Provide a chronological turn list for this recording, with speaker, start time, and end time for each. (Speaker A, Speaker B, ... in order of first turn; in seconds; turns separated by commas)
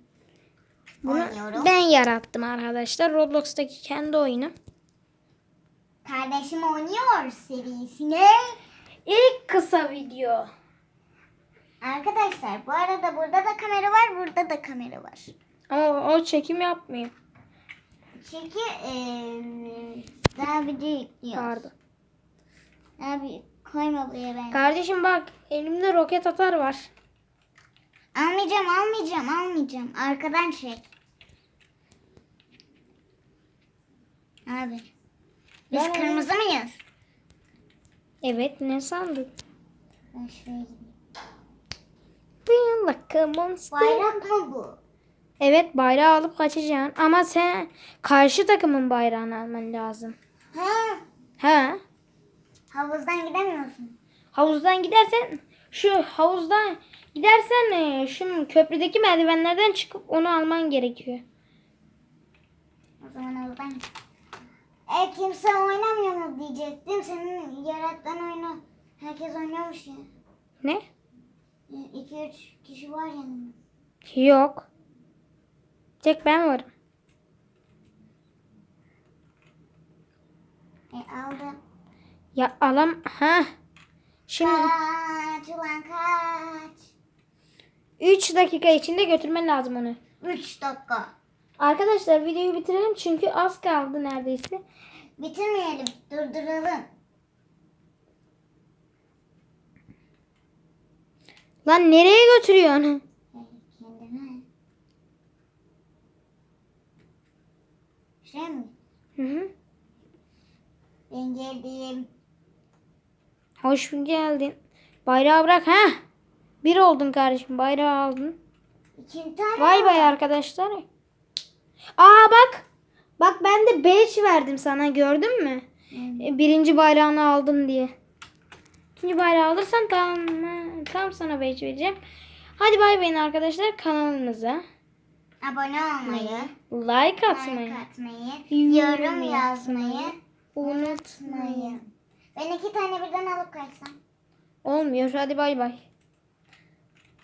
Speaker A: 1.0-4.5, Speaker B: 1.0-1.7, Speaker B: 6.0-8.6, Speaker A: 9.1-10.5, Speaker B: 11.8-15.3, Speaker A: 15.7-17.1, Speaker B: 18.2-21.6, Speaker A: 21.3-21.7, Speaker B: 23.0-24.7, Speaker A: 24.5-26.9, Speaker B: 28.1-30.8, Speaker B: 34.5-34.9, Speaker A: 35.7-36.3, Speaker B: 35.7-36.8, Speaker A: 38.2-39.3, Speaker B: 40.1-40.9, Speaker A: 42.5-44.0, Speaker B: 43.7-44.8, Speaker A: 45.4-50.1, Speaker B: 50.5-51.0, Speaker A: 51.4-51.8, Speaker B: 52.7-54.0, Speaker A: 54.3-61.2, Speaker B: 63.0-63.8, Speaker B: 64.9-70.1, Speaker B: 71.7-73.6, Speaker A: 74.0-74.7, Speaker A: 76.0-76.7, Speaker B: 80.9-81.6, Speaker A: 82.3-83.5, Speaker A: 84.3-84.7, Speaker B: 84.4-86.8, Speaker A: 88.0-90.0, Speaker B: 90.2-91.1, Speaker A: 91.6-94.6, Speaker B: 95.2-96.9, Speaker A: 101.6-103.0, Speaker B: 103.3-104.4, Speaker B: 108.2-108.7, Speaker A: 109.2-109.5, Speaker B: 111.1-112.1, Speaker A: 113.6-116.0, Speaker A: 116.6-118.4, Speaker B: 119.0-120.1, Speaker A: 119.6-120.8, Speaker A: 122.0-122.6, Speaker A: 123.2-125.6, Speaker B: 125.9-126.3, Speaker A: 126.2-127.9, Speaker A: 128.9-132.0, Speaker A: 132.6-134.6, Speaker B: 135.4-136.5, Speaker A: 136.0-137.8, Speaker B: 137.3-141.8, Speaker A: 138.5-141.8, Speaker B: 142.3-143.9, Speaker A: 144.6-145.8